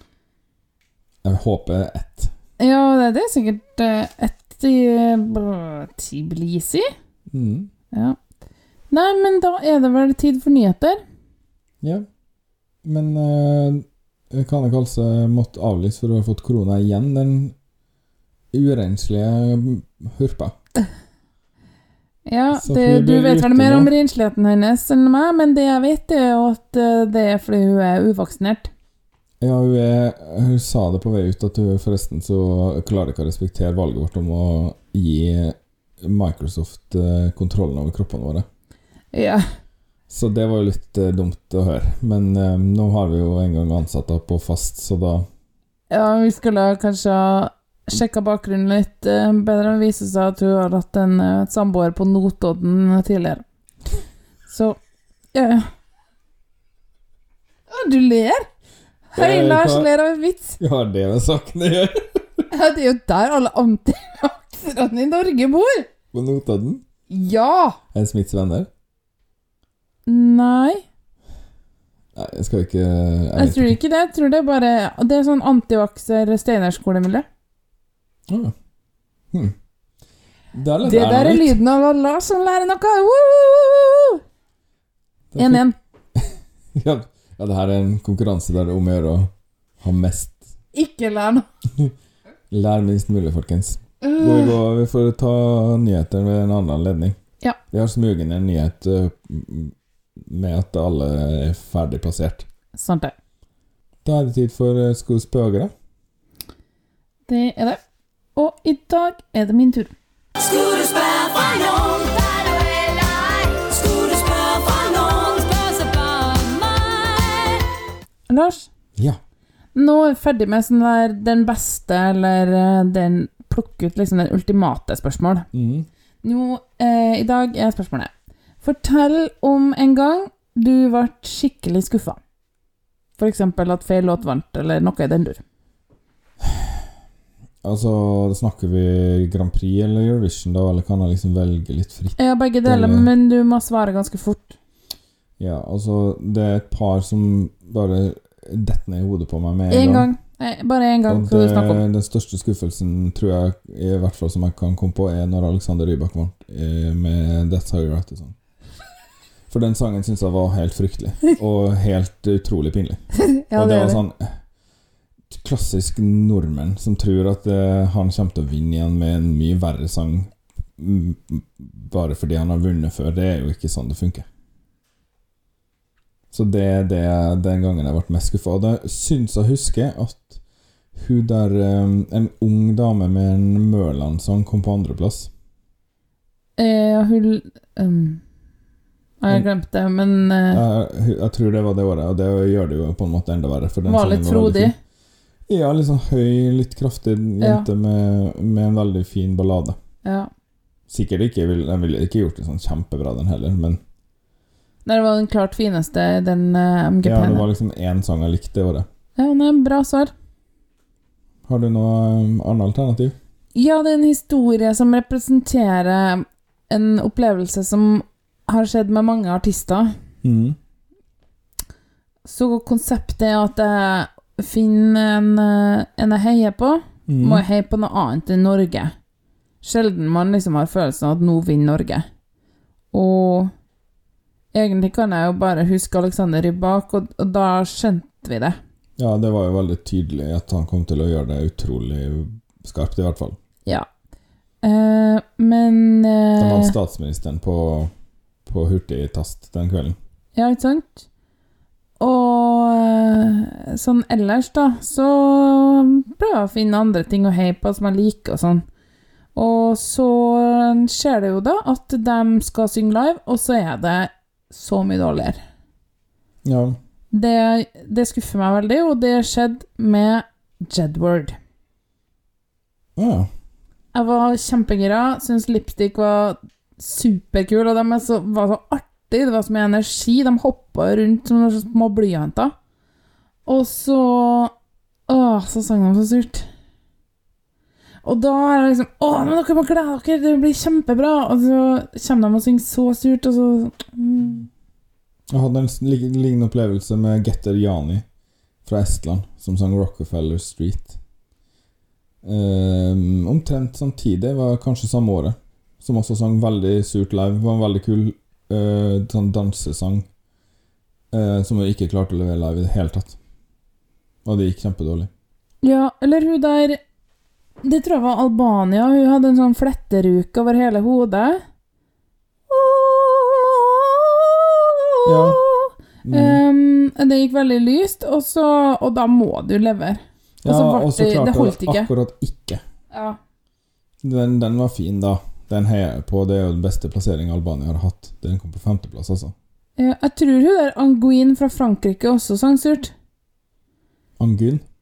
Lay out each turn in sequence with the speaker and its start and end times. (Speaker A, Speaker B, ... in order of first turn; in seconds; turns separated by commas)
Speaker A: 1.2-2.3, Speaker B: 2.6-6.8, Speaker A: 7.3-7.7, Speaker B: 8.9-11.0, Speaker A: 12.8-17.5, Speaker A: 18.5-20.6, Speaker B: 22.2-28.7, Speaker A: 22.5-23.9, Speaker A: 29.4-38.5, Speaker B: 39.1-39.4, Speaker A: 40.1-45.3, Speaker B: 45.9-53.4, Speaker B: 54.5-54.8, Speaker B: 55.3-55.7, Speaker B: 57.7-58.5, Speaker B: 59.1-60.6, Speaker A: 59.1-59.9, Speaker A: 60.6-62.4, Speaker B: 62.5-65.9, Speaker A: 66.1-66.8, Speaker B: 67.1-67.8, Speaker A: 67.9-68.7, Speaker B: 70.1-70.8, Speaker A: 72.1-73.8, Speaker B: 73.4-77.2, Speaker A: 78.3-78.5, Speaker A: 80.5-81.6, Speaker B: 80.8-84.2, Speaker A: 85.3-90.5, Speaker B: 85.4-85.7, Speaker B: 90.7-91.5, Speaker A: 92.5-97.2, Speaker B: 94.0-94.5, Speaker A: 97.7-102.5, Speaker B: 102.8-103.1, Speaker A: 104.0-105.7, Speaker B: 107.3-107.8, Speaker B: 108.3-109.9, Speaker C: 110.4-117.5, Speaker B: 118.3-118.7, Speaker B: 119.7-125.5, Speaker A: 125.5-125.9, Speaker B: 126.2-128.1, Speaker B: 128.6-132.2, Speaker B: 133.2-135.4, Speaker A: 136.4-136.8, Speaker A: 137.6-143.1, Speaker B: 142.2-144.5, Speaker A: 145.4-150.1, Speaker B: 149.7-151.8, Speaker A: 151.1-158.3, Speaker A: 159.5-164.3, Speaker B: 163.2-164.0, Speaker A: 165.3-174.3, Speaker A: 176.3-180.4, Speaker A: 180.9-185.3, Speaker B: 186.6-188.2, Speaker B: 189.2-190.6, Speaker A: 190.5-194.7, Speaker B: 193.8-194.8, Speaker A: 195.5-199.8, Speaker B: 197.4-197.7, Speaker B: 200.0-200.3, Speaker A: 200.9-203.8, Speaker B: 204.8-207.5, Speaker A: 207.0-208.9, Speaker B: 209.2-210.1, Speaker A: 211.5-213.2, Speaker B: 213.5-219.9, Speaker A: 220.2-220.6, Speaker B: 222.2-228.9, Speaker A: 227.1-227.4, Speaker B: 229.6-232.1, Speaker B: 232.9-233.5, Speaker B: 234.5-238.6, Speaker A: 239.0-243.4, Speaker B: 244.6-246.7, Speaker A: 246.4-247.9, Speaker A: 248.4-250.0, Speaker B: 250.3-251.1, Speaker B: 252.0-258.6, Speaker B: 259.3-265.4, Speaker A: 266.4-266.8, Speaker B: 267.1-271.4, Speaker A: 272.9-273.3, Speaker B: 273.9-282.5, Speaker B: 283.4-284.5, Speaker B: 285.1-286.5, Speaker B: 288.0-294.5, Speaker A: 295.3-298.0, Speaker A: 298.6-301.0, Speaker A: 302.2-310.1, Speaker A: 311.1-313.2, Speaker A: 314.2-315.1, Speaker B: 315.6-316.8, Speaker B: 317.6-321.4, Speaker B: 322.5-331.9, Speaker A: 325.0-325.4, Speaker A: 326.0-326.4, Speaker A: 330.4-332.6, Speaker B: 332.9-333.2, Speaker A: 334.0-339.3, Speaker B: 339.8-342.9, Speaker A: 344.2-344.6